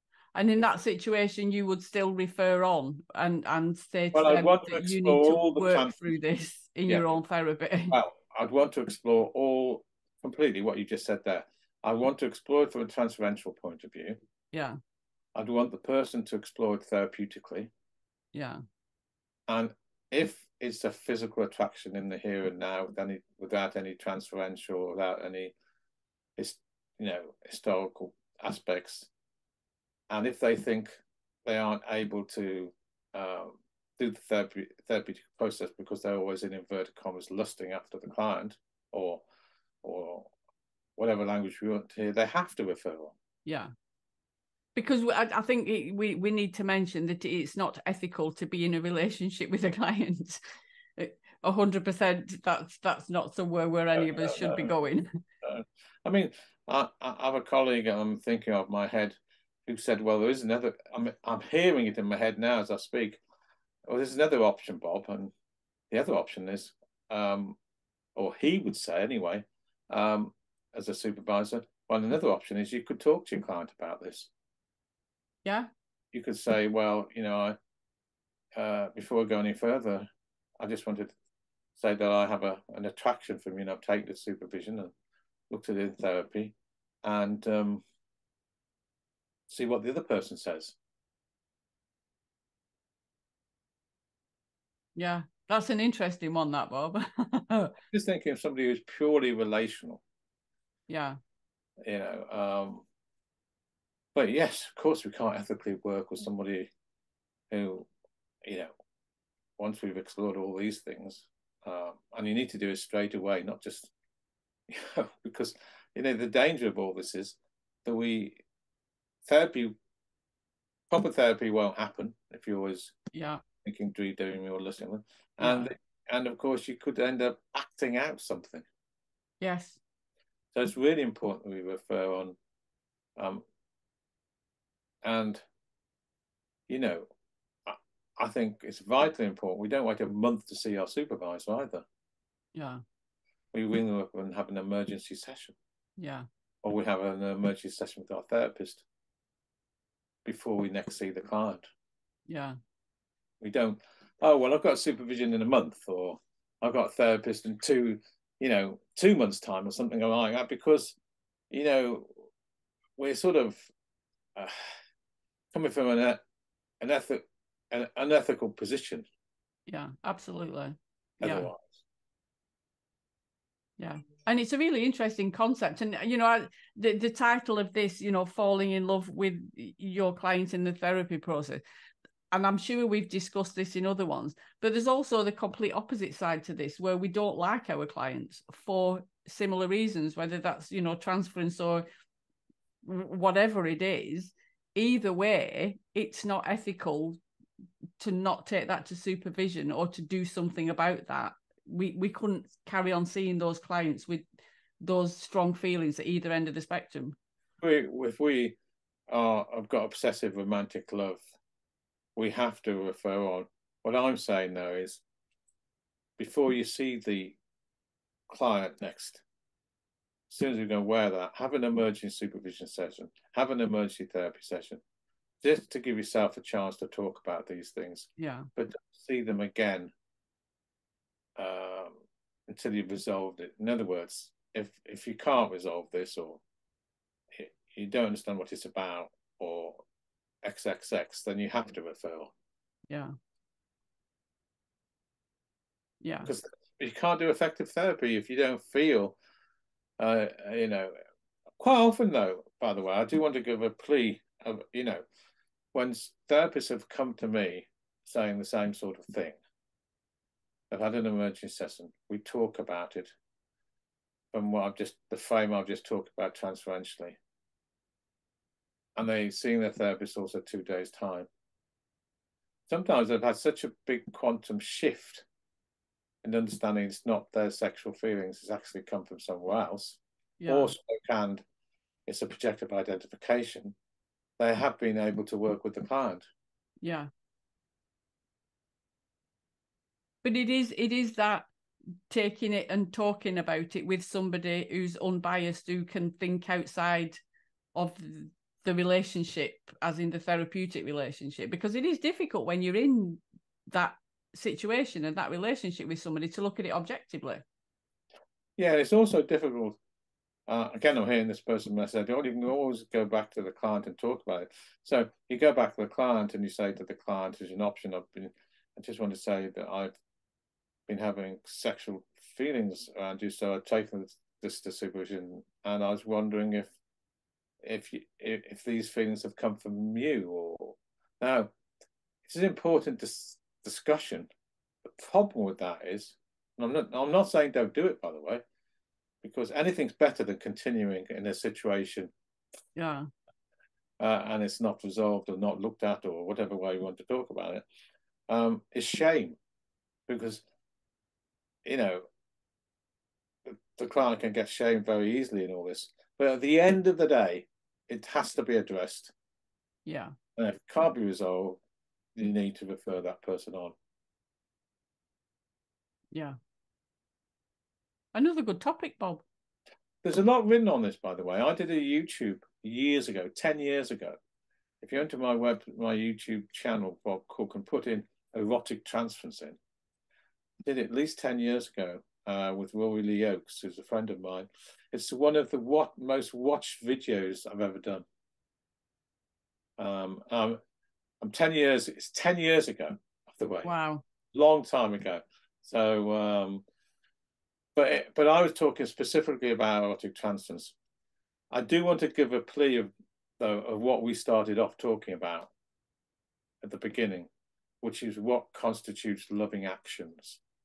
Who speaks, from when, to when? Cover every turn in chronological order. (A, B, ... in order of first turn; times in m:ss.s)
0:00.3-0:08.0 A
0:04.1-0:06.0 B
0:06.9-0:07.2 B
0:07.9-0:14.2 B
0:14.5-0:14.8 A
0:15.3-0:17.7 B
0:18.3-0:18.6 A
0:19.5-0:25.5 B
0:26.4-0:29.1 B
0:30.1-0:39.2 B
0:39.8-0:40.3 B
0:41.0-0:43.2 B
0:43.4-0:43.7 A
0:44.7-0:50.4 A
0:51.0-0:55.1 A
0:53.9-0:54.7 B
0:55.4-1:03.2 B
1:03.9-1:05.3 B
1:05.9-1:07.6 B
1:08.1-1:14.3 B
1:16.1-1:17.6 B
1:18.5-1:20.1 B
1:20.6-1:21.2 B
1:21.8-1:24.9 B
1:25.5-1:27.8 B
1:29.5-1:30.8 B
1:35.0-1:37.7 A
1:37.9-1:40.0 B
1:40.9-1:41.2 A
1:41.8-1:42.8 B
1:44.1-1:46.7 B
1:47.5-1:47.9 B
1:48.4-1:48.7 B
1:49.6-1:53.9 B
1:54.7-1:58.4 B
1:59.2-1:59.8 B
2:00.9-2:02.9 B
2:03.1-2:03.4 A
2:03.6-2:08.6 B
2:05.4-2:05.7 A
2:09.4-2:09.8 A
2:10.5-2:12.4 B
2:13.2-2:13.4 B
2:15.0-2:15.4 B
2:16.7-2:17.1 B
2:17.6-2:21.8 B
2:22.5-2:22.8 A
2:23.5-2:25.6 B
2:26.0-2:26.2 A
2:26.6-2:28.8 B
2:30.2-2:31.7 B
2:32.3-2:32.6 A
2:33.4-2:41.0 B
2:41.5-2:42.3 B
2:43.0-2:43.7 B
2:44.3-2:44.7 B
2:45.5-2:46.2 B
2:46.8-2:49.1 B
2:49.7-2:51.5 A
2:51.2-2:51.8 B
2:53.8-3:01.6 A
3:02.3-3:11.8 A
3:12.8-3:17.2 A
3:18.0-3:24.2 A
3:24.8-3:27.2 A
3:27.6-3:28.6 B
3:29.1-3:31.2 B
3:32.2-3:35.0 B
3:36.2-3:37.4 B
3:38.3-3:39.2 B
3:40.3-3:44.8 B
3:45.4-3:49.9 B
3:48.2-3:48.5 A
3:51.4-3:56.4 B
3:57.3-3:59.8 B
4:00.4-4:02.3 B
4:06.0-4:06.3 A
4:06.2-4:09.2 B
4:10.0-4:10.9 B
4:11.6-4:15.0 B
4:15.7-4:19.4 B
4:20.7-4:23.1 B
4:24.3-4:27.2 B
4:29.0-4:31.3 B
4:32.7-4:35.2 B
4:36.2-4:41.4 B
4:40.4-4:40.7 A
4:42.0-4:43.8 B
4:44.4-4:46.3 B
4:46.8-4:47.1 A
4:50.2-4:51.5 A
4:52.1-4:57.2 A
4:57.7-5:07.4 A
5:08.6-5:09.8 B
5:10.5-5:19.9 B
5:20.9-5:26.7 B
5:27.6-5:31.5 B
5:32.2-5:34.3 B
5:34.8-5:38.4 B
5:39.2-5:42.1 B
5:42.8-5:43.1 A
5:44.0-5:47.6 B
5:48.3-5:49.4 B
5:50.1-5:50.4 B
5:51.6-5:52.1 B
5:53.4-5:59.1 B
5:59.8-6:00.1 A
6:00.4-6:01.6 B
6:02.2-6:03.7 B
6:08.1-6:09.2 A
6:10.0-6:14.2 B
6:14.8-6:19.6 B
6:20.6-6:28.0 B
6:29.8-6:30.6 B
6:31.2-6:33.7 B
6:33.6-6:34.0 A
6:34.3-6:36.6 B
6:37.8-6:40.8 B
6:41.5-6:45.5 B
6:46.6-6:47.3 B
6:47.8-6:50.4 B